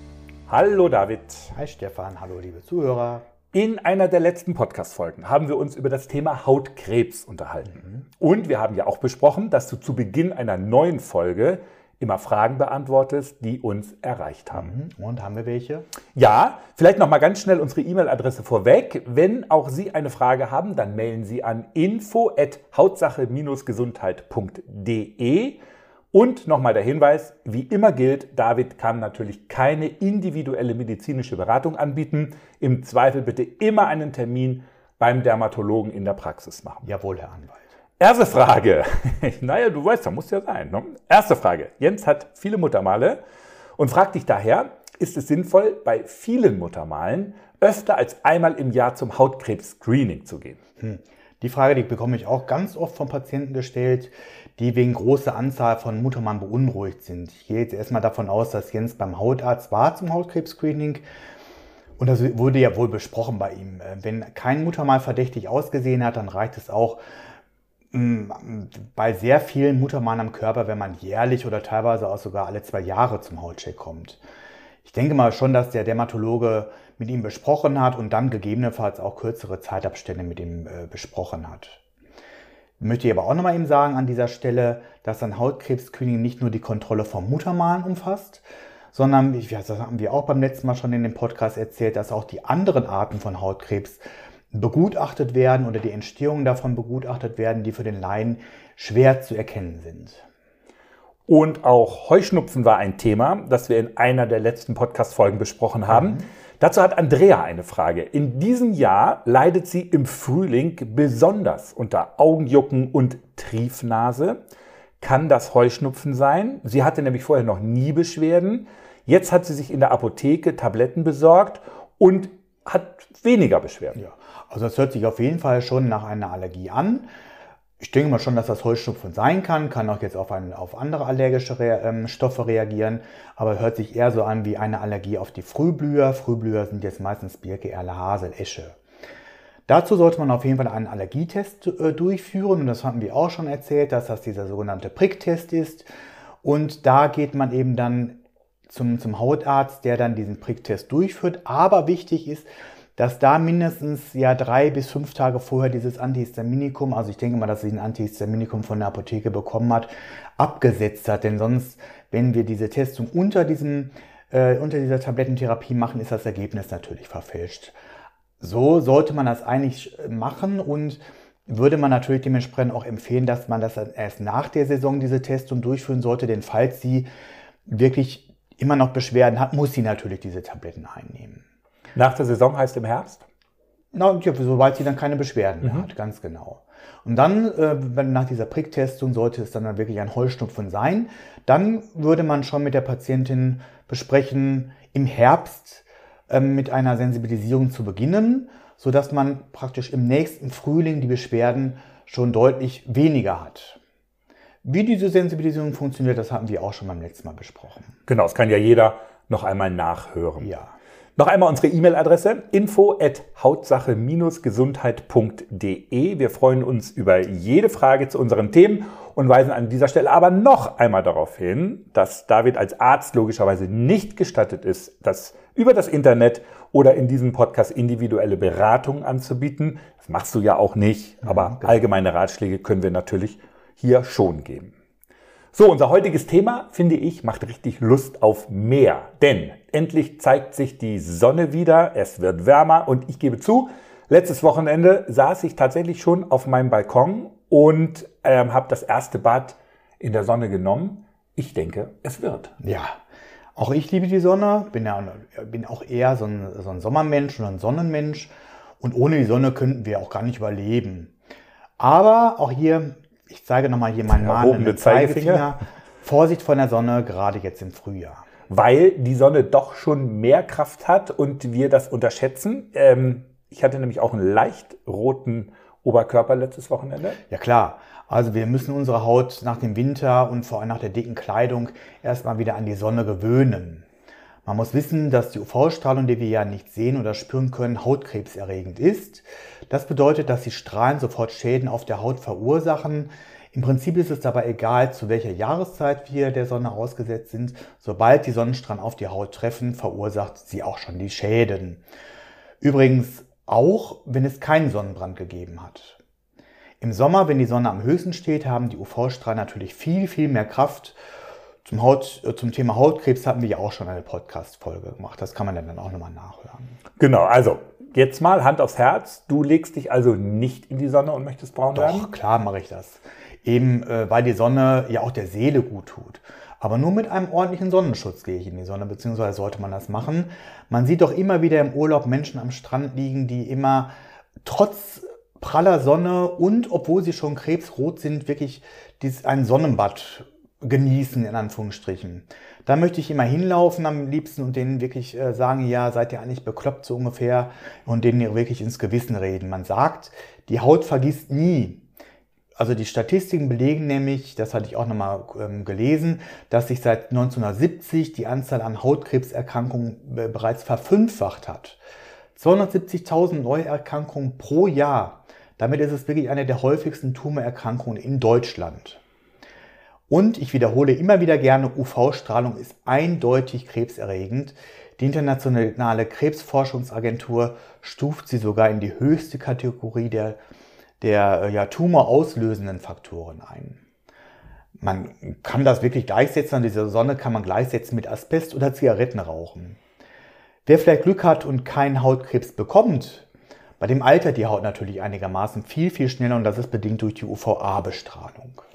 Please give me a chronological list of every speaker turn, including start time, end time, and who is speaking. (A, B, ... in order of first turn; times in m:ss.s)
0:00.5-0:01.5 A
0:01.5-0:03.2 B
0:03.5-0:14.7 A
0:14.5-0:15.8 B
0:16.1-0:25.6 A
0:26.1-0:36.9 A
0:36.8-0:37.6 B
0:38.0-0:43.2 A
0:43.8-0:50.6 A
0:50.8-1:01.0 B
1:02.0-1:07.0 B
1:07.9-1:14.2 B
1:14.8-1:21.8 B
1:22.8-1:40.2 B
1:41.3-1:54.4 A
1:45.9-1:46.2 B
1:55.0-2:04.0 A
2:03.9-2:07.1 B
2:07.8-2:18.8 B
2:19.7-2:25.9 B
2:26.4-2:47.8 B
2:48.4-2:57.1 B
2:57.6-3:01.4 B
3:01.9-3:03.2 A
3:03.9-3:23.8 B
3:24.6-3:27.9 B
3:28.1-3:30.5 A
3:30.4-3:30.8 B
3:31.2-3:54.7 A
3:51.2-3:51.8 B
3:55.5-4:12.5 A
4:12.6-4:13.0 B
4:13.6-4:21.1 B
4:21.8-4:28.3 B
4:24.1-4:25.5 A
4:28.5-4:37.2 A
4:37.3-4:43.8 B
4:44.4-5:01.8 B
5:02.6-5:06.0 B
5:06.8-5:11.0 B
5:11.6-5:16.7 B
5:17.0-5:22.1 A
5:21.7-5:33.9 B
5:34.4-5:51.8 B
5:52.6-6:01.8 B
6:02.4-6:09.0 B
6:10.1-6:20.4 B
6:21.0-6:23.8 B
6:24.8-6:29.8 B
6:30.6-6:33.3 B
6:33.8-6:38.6 B